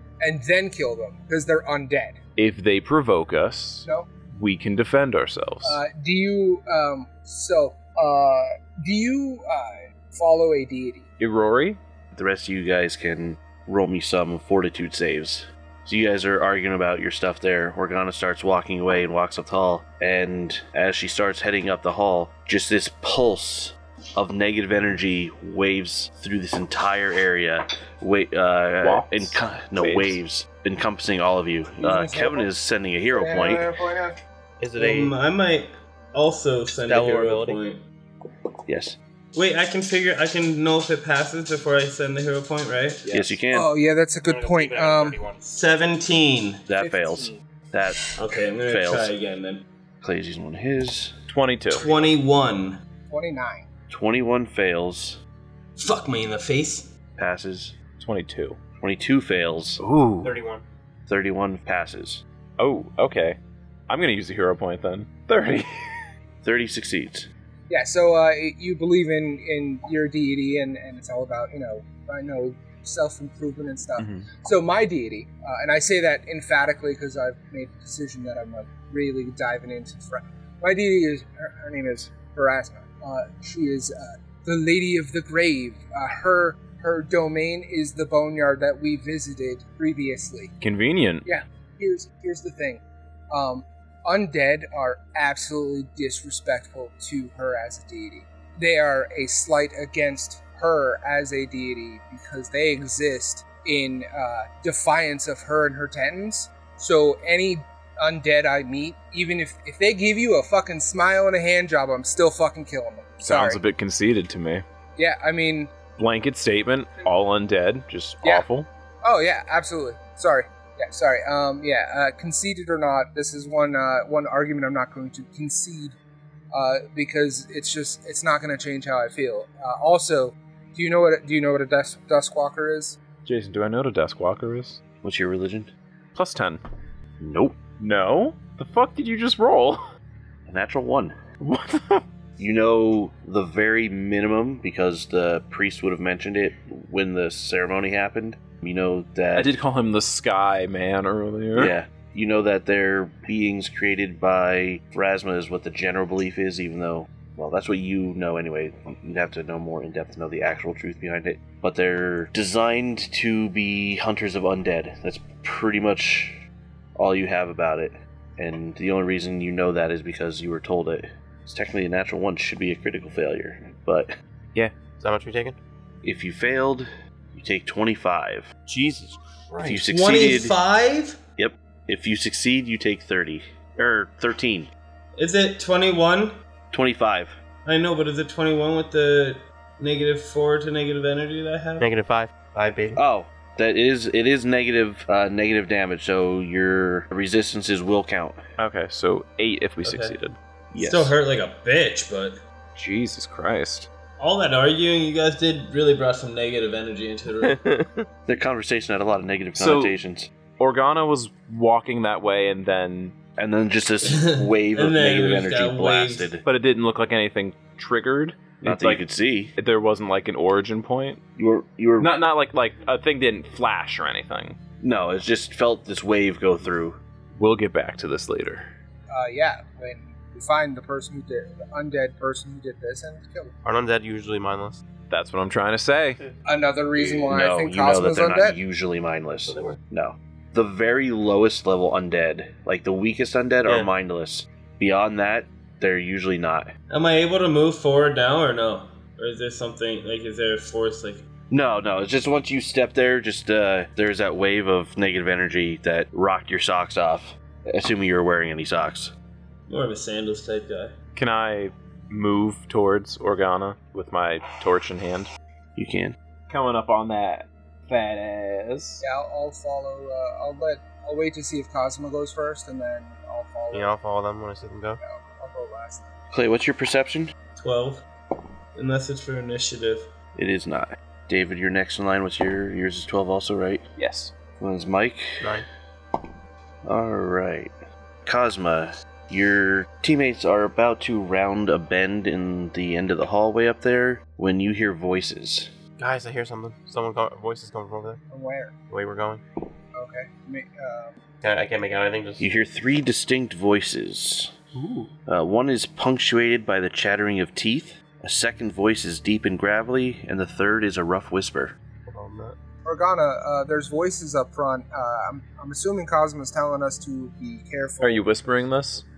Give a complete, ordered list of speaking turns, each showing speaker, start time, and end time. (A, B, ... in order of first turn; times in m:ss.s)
0:00.2-0:02.2 A
0:02.4-0:05.8 B
0:05.6-0:11.0 A
0:11.2-0:11.8 B
0:12.1-0:33.6 C
0:28.8-0:30.2 B
0:31.8-0:32.5 A
0:33.1-0:34.2 A
0:34.6-0:35.1 D
0:34.7-0:37.8 E
0:36.9-0:37.6 D
0:38.7-0:39.0 C
0:39.3-0:43.0 E
0:43.0-0:43.4 B
0:43.1-0:43.7 C
0:43.5-0:45.2 A
0:44.2-0:45.4 D
0:45.5-0:46.6 E
0:46.7-0:48.0 C
0:46.8-0:47.3 A
0:48.2-0:49.6 E
0:48.6-0:49.1 C
0:50.0-0:51.1 C
0:51.3-0:51.9 B
0:51.7-0:52.8 E
0:53.1-0:53.6 A
0:53.9-0:55.2 C
0:55.8-0:56.9 E
0:57.2-0:57.8 C
0:58.0-0:58.6 B
0:58.8-0:59.8 C
0:59.8-1:00.3 B
1:00.2-1:00.6 D
1:01.1-1:02.2 C
1:02.6-1:03.4 B
1:03.9-1:05.7 B
1:06.4-1:07.3 C
1:07.7-1:30.5 A
1:14.0-1:14.3 B
1:30.6-1:31.2 B
1:31.2-1:53.6 A
1:53.2-1:54.6 B
1:55.0-1:55.7 A
1:56.0-1:58.7 B
1:59.0-2:05.9 A
2:06.5-2:13.0 A
2:13.2-2:14.8 B
2:15.0-2:15.7 C
2:16.1-2:16.6 B
2:17.2-2:17.6 C
2:17.6-2:19.8 B
2:20.5-2:21.2 C
2:21.4-2:22.0 B
2:22.4-2:29.5 C
2:29.3-2:31.7 B
2:31.5-2:46.4 C
2:47.0-2:54.1 C
2:55.0-2:55.6 D
2:56.0-2:58.5 C
2:58.7-2:59.8 D
2:59.6-3:00.6 C
2:59.8-3:01.2 E
3:01.4-3:04.7 C
3:05.2-3:06.4 E
3:06.7-3:07.4 C
3:07.6-3:11.9 E
3:11.8-3:13.0 D
3:12.9-3:18.4 C
3:18.6-3:20.4 B
3:19.8-3:20.2 E
3:20.7-3:21.1 C
3:20.8-3:22.4 E
3:22.7-3:23.9 B
3:24.2-3:27.6 E
3:27.4-3:28.0 D
3:28.3-3:30.3 C
3:29.6-3:30.0 B
3:30.6-3:33.1 B
3:33.4-3:36.4 C
3:34.0-3:36.3 E
3:36.4-3:39.0 B
3:38.6-3:39.5 C
3:39.6-3:41.2 B
3:41.4-3:42.1 C
3:42.0-3:44.6 B
3:44.8-3:47.0 C
3:47.3-3:48.7 B
3:49.1-3:53.5 A
3:53.6-3:54.8 D
3:55.1-3:56.2 B
3:56.4-3:58.6 A
3:57.0-4:06.7 C
3:59.4-3:59.8 D
4:06.9-4:11.2 E
4:11.5-4:19.1 C
4:19.7-4:20.9 E
4:21.2-4:25.3 B
4:25.8-4:26.1 C
4:26.5-4:29.0 B
4:29.0-4:33.9 A
4:33.7-4:35.0 D
4:35.0-4:36.1 A
4:36.3-4:37.3 C
4:37.6-4:38.0 E
4:38.7-4:40.0 E
4:40.4-4:43.8 C
4:44.0-4:44.3 B
4:44.6-4:45.6 C
4:45.4-4:45.6 D
4:46.8-4:47.7 C
4:48.2-4:55.7 C
4:56.0-4:58.2 D
4:58.3-4:58.7 A
4:58.9-4:59.4 D
4:59.9-5:01.2 A
5:01.4-5:02.4 D
5:02.4-5:04.5 C
5:04.8-5:05.1 D
5:05.3-5:11.7 C
5:12.0-5:12.6 D
5:12.8-5:18.4 A
5:18.0-5:19.0 B